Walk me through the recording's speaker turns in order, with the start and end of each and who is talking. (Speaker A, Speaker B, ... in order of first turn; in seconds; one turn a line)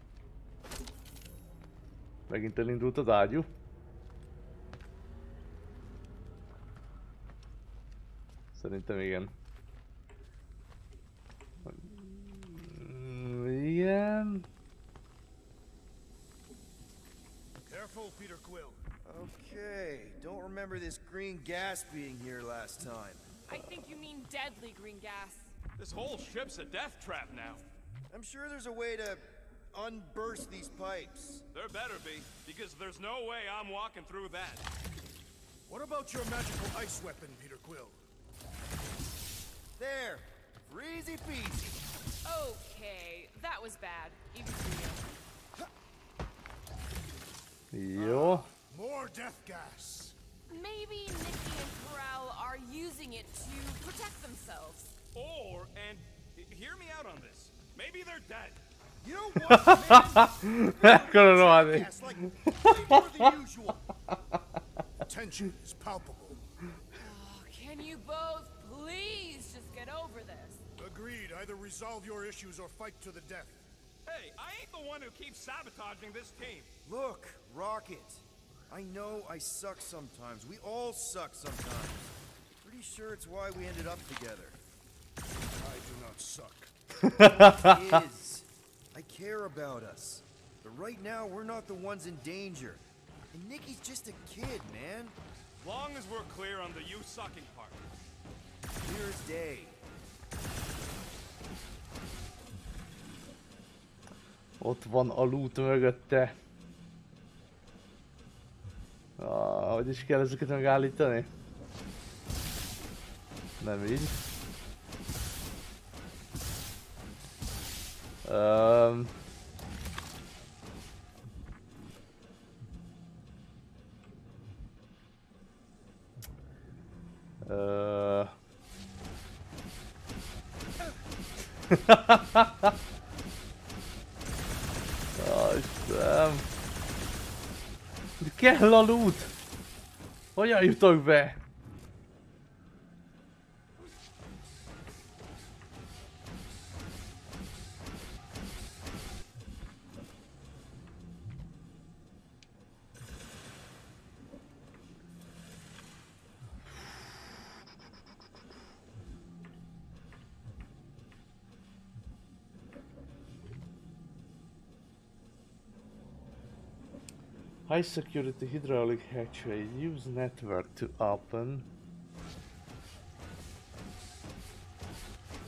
Speaker A: 2.3-3.5
Speaker A: 8.6-9.3
Speaker A: 11.6-14.5
Speaker B: 17.6-18.8
Speaker C: 19.1-23.3
Speaker D: 23.5-25.5
Speaker E: 25.8-27.6
Speaker C: 28.1-31.4
Speaker E: 31.5-34.6
Speaker B: 35.7-38.0
Speaker C: 39.8-41.8
Speaker D: 42.2-45.1
Speaker A: 47.7-48.5
Speaker B: 48.0-50.2
Speaker D: 50.5-55.0
Speaker E: 55.1-58.6
Speaker C: 59.0-63.9
Speaker A: 59.5-61.9
Speaker A: 62.4-63.0
Speaker B: 65.0-66.4
Speaker D: 67.0-70.6
Speaker B: 70.8-73.7
Speaker E: 74.1-76.7
Speaker C: 76.8-82.1
Speaker C: 82.6-84.6
Speaker B: 85.6-86.7
Speaker A: 87.0-87.8
Speaker C: 87.2-95.2
Speaker E: 95.6-97.8
Speaker C: 98.8-99.8
Speaker A: 104.6-106.3
Speaker A: 109.2-111.3
Speaker A: 113.6-114.2
Speaker A: 118.2-119.1
Speaker A: 127.5-128.3
Speaker A: 131.7-132.8
Speaker A: 135.2-136.5
Speaker A: 138.2-139.3
Speaker A: 140.4-141.4
Speaker A: 167.7-171.7